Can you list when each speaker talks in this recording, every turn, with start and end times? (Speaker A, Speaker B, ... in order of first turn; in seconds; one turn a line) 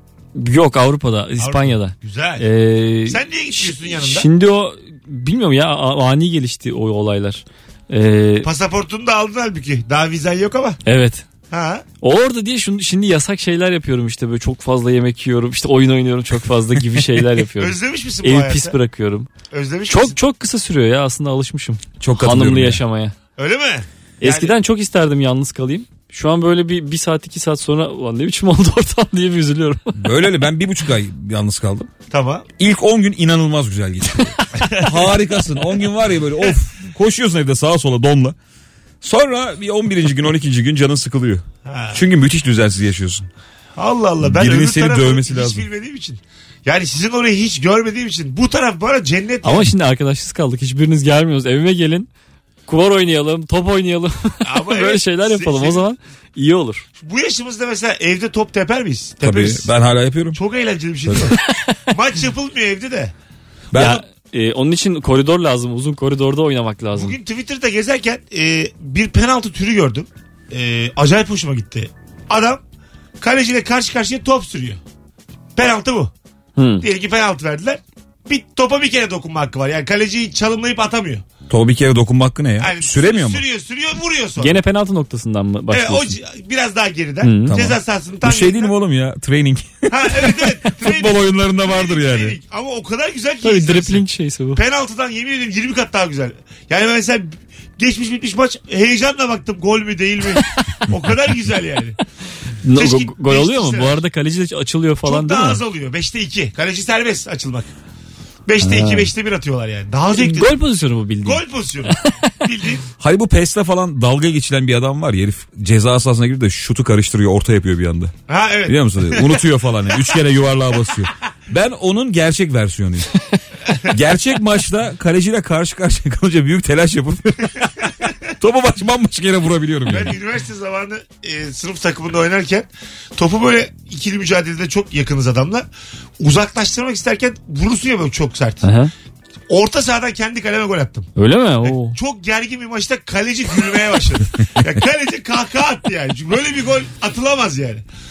Speaker A: 0.3-8.5
Speaker B: 1.4-2.5
Speaker B: 3.1-4.3
Speaker B: 8.4-10.8
Speaker A: 10.8-11.2
Speaker B: 11.5-11.8
Speaker A: 12.0-19.3
Speaker B: 17.6-18.7
Speaker B: 19.5-20.2
Speaker A: 19.9-23.1
Speaker C: 22.0-22.8
Speaker B: 23.4-24.5
Speaker A: 24.2-30.0
Speaker C: 29.9-31.9
Speaker B: 32.1-32.5
Speaker C: 32.6-38.4
Speaker B: 34.6-35.1
Speaker C: 39.0-43.3
Speaker B: 41.6-42.0
Speaker B: 43.8-49.7
Speaker C: 44.2-45.7
Speaker A: 49.4-52.1
Speaker A: 52.7-56.8
Speaker B: 54.4-55.8
Speaker B: 57.0-59.7
Speaker C: 59.2-60.4
Speaker B: 60.3-61.4
Speaker C: 61.0-61.3
Speaker B: 61.9-63.1
Speaker C: 63.7-64.0
Speaker A: 63.7-67.2
Speaker B: 66.9-72.6
Speaker B: 73.2-74.8
Speaker B: 75.5-76.1
Speaker A: 76.6-76.9
Speaker B: 76.8-81.2
Speaker C: 81.5-83.4
Speaker B: 82.6-84.6
Speaker A: 84.4-86.2
Speaker B: 85.7-88.7
Speaker A: 87.2-87.6
Speaker C: 87.5-92.4
Speaker B: 89.9-102.0
Speaker A: 93.4-94.6
Speaker A: 102.6-105.6
Speaker B: 102.6-104.0
Speaker B: 105.0-107.7
Speaker B: 108.5-110.6
Speaker A: 108.6-109.1
Speaker A: 110.2-111.4
Speaker B: 111.2-112.8
Speaker C: 113.0-118.1
Speaker B: 118.3-119.4
Speaker C: 118.7-123.1
Speaker C: 123.9-127.6
Speaker C: 128.4-130.2
Speaker B: 129.9-135.7
Speaker B: 136.2-138.7
Speaker A: 138.6-138.9
Speaker B: 139.5-141.1
Speaker A: 141.2-142.0
Speaker B: 141.6-147.8